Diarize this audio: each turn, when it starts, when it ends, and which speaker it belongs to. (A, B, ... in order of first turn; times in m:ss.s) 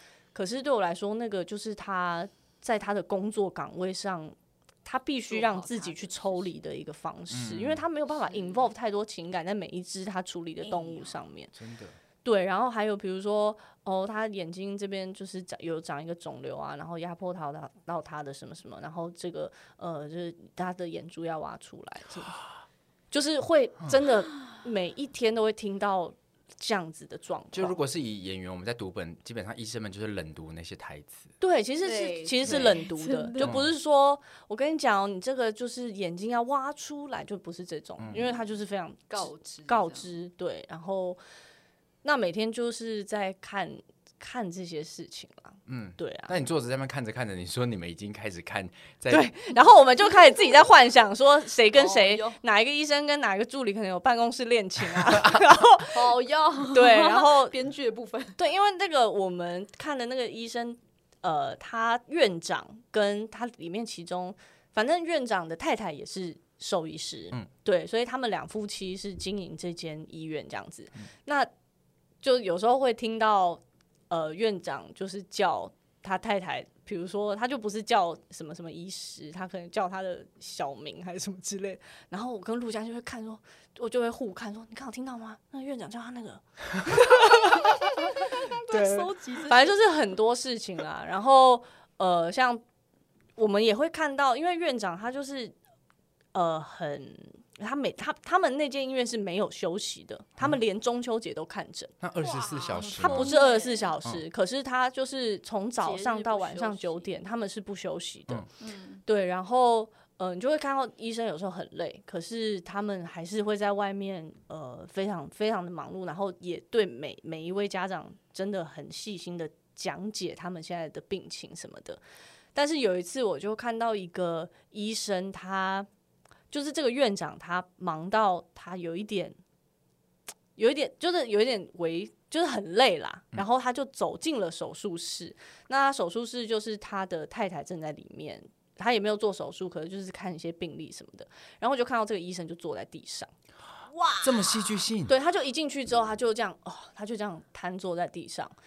0:00.3-0:11.5 A
0:05.3-0:06.5 B
0:07.3-0:07.8 C
0:08.3-0:08.6 B
0:10.6-0:11.2 B
0:11.6-0:12.0 C
0:12.2-0:22.4 A
0:23.1-0:27.8 A
0:27.5-0:31.3 C
0:31.4-0:41.2 A
0:31.8-0:33.6 B
0:32.5-0:32.8 C
0:33.4-0:33.7 C
0:38.0-0:38.2 C
0:39.1-0:40.1 B
0:42.0-0:46.4 A
0:45.7-0:49.3 C
0:49.1-0:56.1 A
0:51.7-0:52.4 B
0:55.9-0:58.4 B
0:56.7-0:57.6 A
0:58.4-1:11.5 A
1:12.2-1:32.6 A
1:27.4-1:29.8 B
1:33.4-1:35.6 A
1:36.3-1:41.9 A
1:42.0-1:43.3 C
1:42.2-1:43.9 B
1:43.0-1:48.5 A
1:45.8-1:47.1 B
1:48.6-1:49.0 B
1:49.1-2:02.0 A
2:02.6-2:05.9 A
2:06.5-2:09.4 A
2:10.6-2:23.3 A
2:23.9-2:24.6 B
2:24.2-2:25.1 C
2:25.1-2:28.5 A